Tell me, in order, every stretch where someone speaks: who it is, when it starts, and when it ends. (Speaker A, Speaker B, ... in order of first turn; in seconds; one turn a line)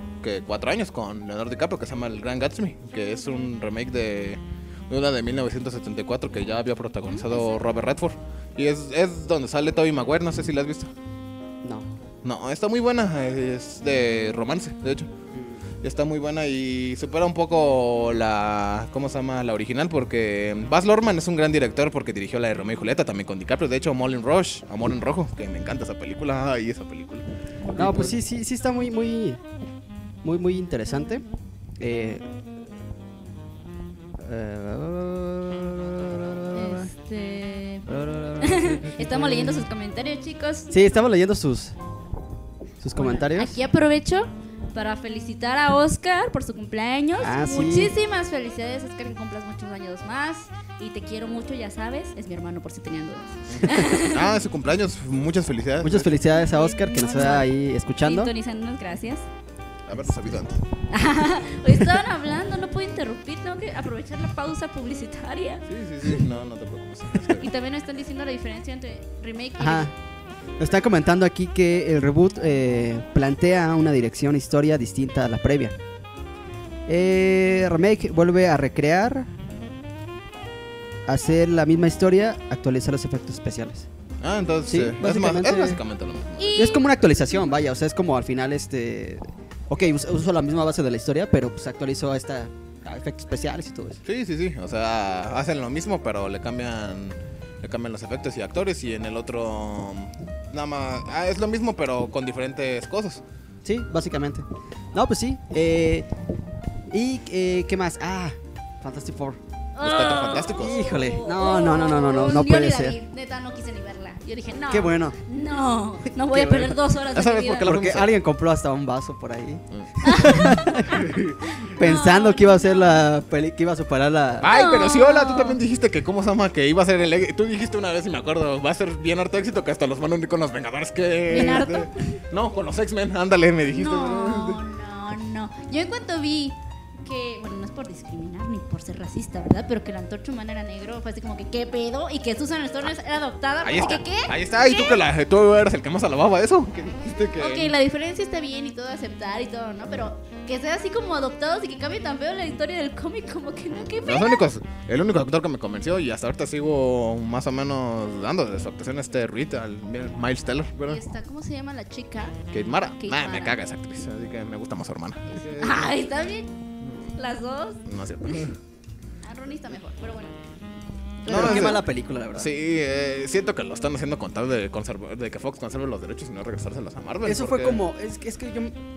Speaker A: 0.2-10.9
Speaker B: 7.1-7.6
Speaker A: 12.2-15.1
Speaker C: 15.3-15.6
Speaker A: 15.8-28.2
Speaker C: 27.7-29.4
Speaker C: 30.2-31.2
Speaker C: 31.8-32.2
Speaker C: 34.2-36.9
Speaker B: 36.5-37.9
Speaker C: 37.9-39.7
Speaker B: 38.4-40.7
Speaker C: 40.7-41.8
Speaker C: 42.8-43.6
Speaker B: 43.0-54.3
Speaker C: 47.2-47.9
Speaker A: 53.5-56.1
Speaker C: 55.8-58.3
Speaker B: 56.3-57.5
Speaker B: 58.0-59.2
Speaker A: 59.9-60.6
Speaker B: 60.9-65.7
Speaker A: 65.7-67.5
Speaker B: 67.3-69.9
Speaker C: 69.6-69.9
Speaker C: 70.6-75.8
Speaker C: 76.9-79.3
Speaker C: 81.1-83.9
Speaker A: 84.2-86.5
Speaker C: 84.7-85.8
Speaker B: 86.4-86.8
Speaker C: 86.5-94.0
Speaker A: 94.0-103.2
Speaker C: 103.6-106.1
Speaker C: 106.9-109.4
Speaker B: 109.8-117.7
Speaker A: 109.8-110.9
Speaker C: 110.5-113.0
Speaker C: 114.7-115.2
Speaker C: 116.3-116.8
Speaker A: 117.1-118.1
Speaker C: 117.6-124.5
Speaker A: 119.7-121.3
Speaker B: 120.0-120.8
Speaker B: 121.6-122.8
Speaker A: 124.4-134.6
Speaker B: 124.4-125.6
Speaker B: 131.3-132.2
Speaker B: 133.7-145.0
Speaker A: 143.6-147.8
Speaker B: 147.3-154.5
Speaker A: 153.9-161.0
Speaker B: 160.9-162.4
Speaker A: 162.5-165.9
Speaker B: 163.0-163.6
Speaker B: 165.3-166.5
Speaker A: 166.8-167.1
Speaker B: 167.1-168.4
Speaker A: 167.8-168.6
Speaker B: 169.2-170.3
Speaker B: 171.2-171.8
Speaker C: 171.2-172.5
Speaker A: 171.3-171.8
Speaker A: 172.3-177.8
Speaker C: 177.2-178.7